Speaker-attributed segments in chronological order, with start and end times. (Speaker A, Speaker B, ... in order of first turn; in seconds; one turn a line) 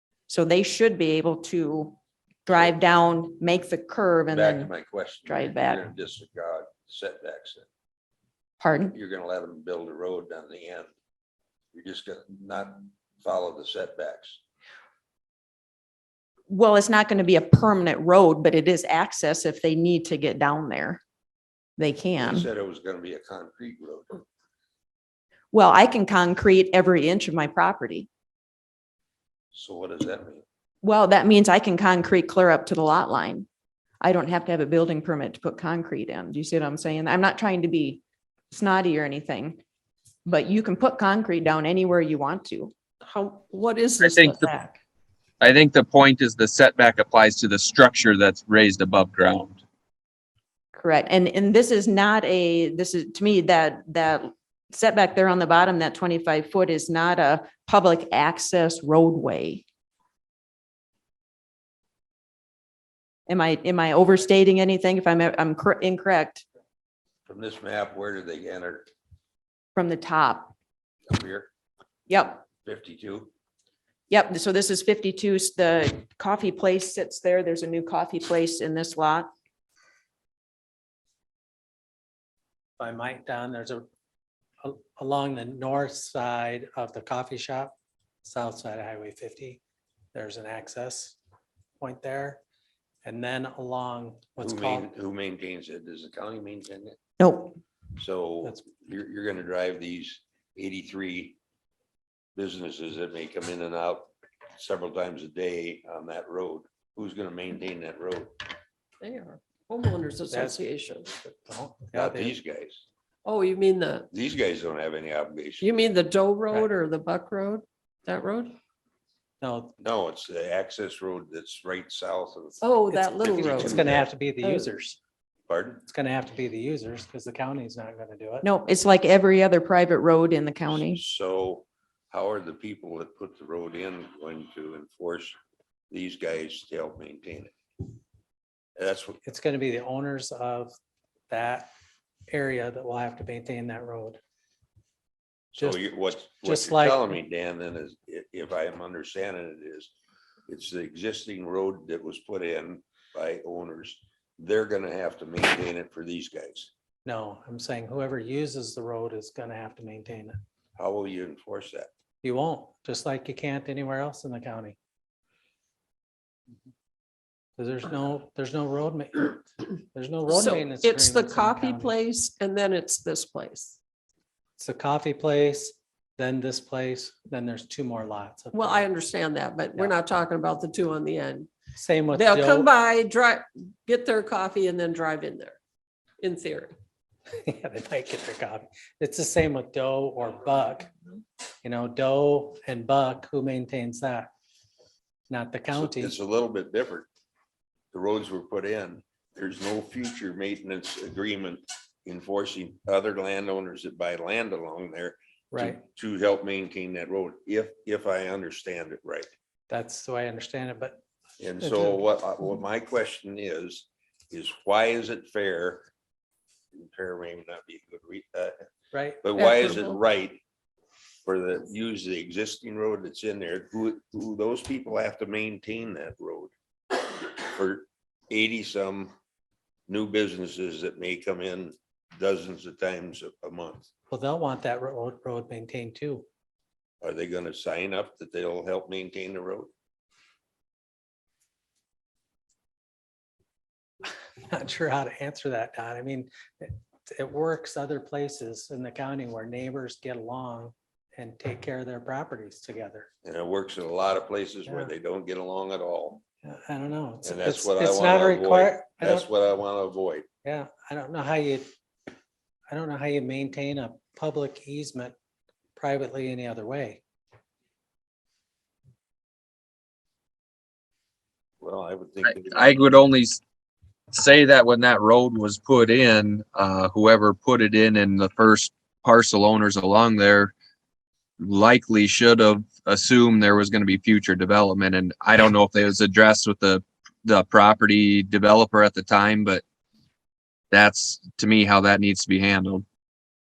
Speaker A: 0.3-4.7
Speaker B: 4.3-7.7
Speaker A: 5.2-5.9
Speaker A: 8.6-8.9
Speaker B: 8.9-10.9
Speaker B: 11.7-14.4
Speaker A: 16.5-21.0
Speaker A: 21.8-22.5
Speaker B: 22.2-24.2
Speaker A: 25.5-28.1
Speaker B: 29.5-30.4
Speaker A: 30.8-33.5
Speaker A: 34.0-39.6
Speaker A: 40.2-42.7
Speaker C: 43.0-44.5
Speaker D: 44.0-44.5
Speaker D: 45.4-49.6
Speaker A: 50.7-59.6
Speaker A: 63.3-66.4
Speaker B: 67.2-68.9
Speaker A: 69.7-70.5
Speaker B: 71.1-71.5
Speaker A: 72.1-72.4
Speaker B: 72.6-73.3
Speaker A: 74.1-79.3
Speaker E: 82.8-83.8
Speaker E: 84.6-89.6
Speaker E: 90.1-91.2
Speaker E: 91.8-92.4
Speaker E: 93.0-94.9
Speaker B: 94.4-97.0
Speaker A: 97.2-97.5
Speaker B: 98.0-101.4
Speaker B: 102.3-108.4
Speaker C: 109.0-111.1
Speaker E: 110.3-110.6
Speaker E: 111.2-112.4
Speaker B: 111.9-112.8
Speaker C: 113.2-114.1
Speaker B: 114.1-115.7
Speaker C: 115.6-118.6
Speaker E: 119.4-119.7
Speaker B: 119.8-122.6
Speaker C: 122.6-123.9
Speaker E: 122.9-125.0
Speaker B: 123.2-124.1
Speaker C: 124.4-124.7
Speaker B: 125.5-125.8
Speaker E: 125.8-128.4
Speaker A: 128.4-131.0
Speaker B: 130.7-135.4
Speaker B: 135.9-137.5
Speaker B: 138.8-139.2
Speaker E: 139.2-140.7
Speaker E: 141.3-141.7
Speaker E: 142.3-144.2
Speaker B: 145.5-149.9
Speaker E: 145.6-147.1
Speaker B: 150.5-156.7
Speaker E: 157.0-160.4
Speaker B: 160.8-161.9
Speaker E: 162.2-164.8
Speaker E: 167.6-171.9
Speaker C: 170.3-173.8
Speaker E: 174.6-178.9
Speaker C: 178.5-181.5
Speaker E: 181.8-182.7
Speaker C: 182.1-185.6
Speaker C: 186.2-186.8
Speaker E: 187.3-190.9
Speaker E: 191.6-194.3
Speaker E: 195.3-196.2
Speaker B: 195.7-197.1
Speaker B: 197.9-209.3
Speaker E: 205.5-205.8
Speaker E: 209.7-211.0
Speaker B: 211.4-215.9
Speaker E: 211.6-212.0
Speaker B: 216.7-218.5
Speaker E: 218.9-219.9
Speaker B: 219.2-220.4
Speaker C: 219.4-219.9
Speaker B: 221.2-229.1
Speaker B: 229.9-233.9
Speaker E: 234.1-236.2
Speaker B: 237.0-239.7
Speaker E: 244.4-253.1
Speaker B: 253.2-256.2
Speaker E: 254.7-254.9
Speaker E: 256.4-259.2
Speaker B: 257.2-260.2
Speaker E: 260.4-261.7
Speaker E: 262.7-265.1
Speaker E: 265.8-267.0
Speaker B: 271.6-272.7
Speaker D: 272.2-273.4
Speaker D: 274.1-280.5
Speaker D: 281.4-289.6
Speaker D: 290.7-292.8